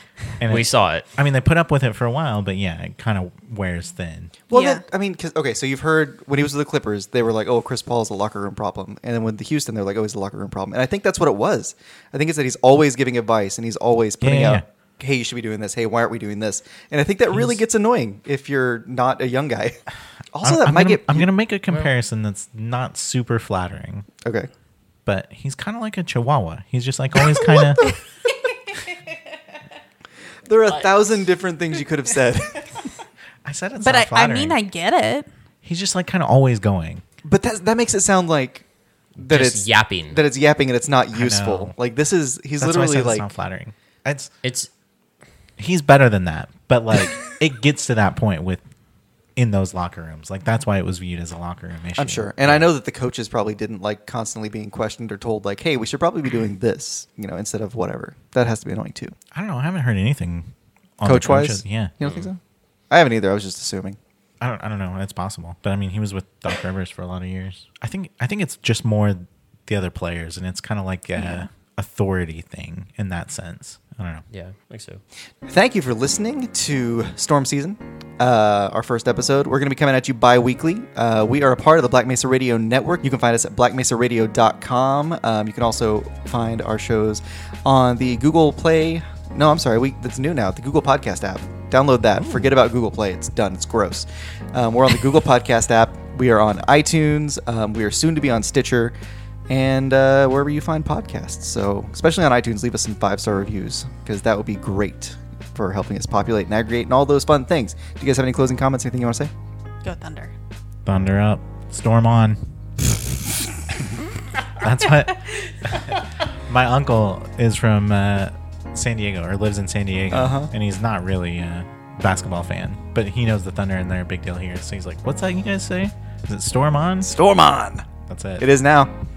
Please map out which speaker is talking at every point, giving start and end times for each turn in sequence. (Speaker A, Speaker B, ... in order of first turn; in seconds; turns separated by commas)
Speaker A: 0.4-4.3, Speaker B: 0.5-1.0, Speaker C: 4.5-19.8, Speaker D: 4.5-4.8, Speaker A: 14.2-14.6, Speaker A: 17.3-17.6, Speaker C: 20.3-21.3, Speaker A: 20.4-24.1, Speaker C: 24.2-24.5, Speaker A: 25.1-27.9, Speaker C: 30.5-32.7, Speaker B: 30.6-31.1, Speaker A: 33.4-34.6, Speaker D: 33.8-35.3, Speaker A: 35.6-37.0, Speaker C: 37.2-38.6, Speaker B: 39.2-40.2, Speaker C: 39.2-43.2, Speaker A: 41.1-41.7, Speaker A: 42.6-44.3, Speaker B: 44.4-44.7, Speaker A: 45.6-48.6, Speaker A: 49.4-52.7, Speaker C: 52.0-59.1, Speaker A: 59.3-61.9, Speaker C: 61.0-62.4, Speaker B: 62.0-62.3, Speaker C: 62.9-64.0, Speaker A: 64.4-74.2, Speaker D: 71.2-71.5, Speaker B: 74.3-75.0, Speaker C: 75.4-98.9, Speaker A: 92.2-92.5, Speaker C: 99.5-109.3, Speaker D: 109.8-110.3, Speaker A: 110.9-112.4, Speaker A: 114.5-127.1, Speaker C: 120.1-120.5, Speaker C: 127.0-127.9, Speaker A: 128.1-128.5, Speaker C: 128.4-128.9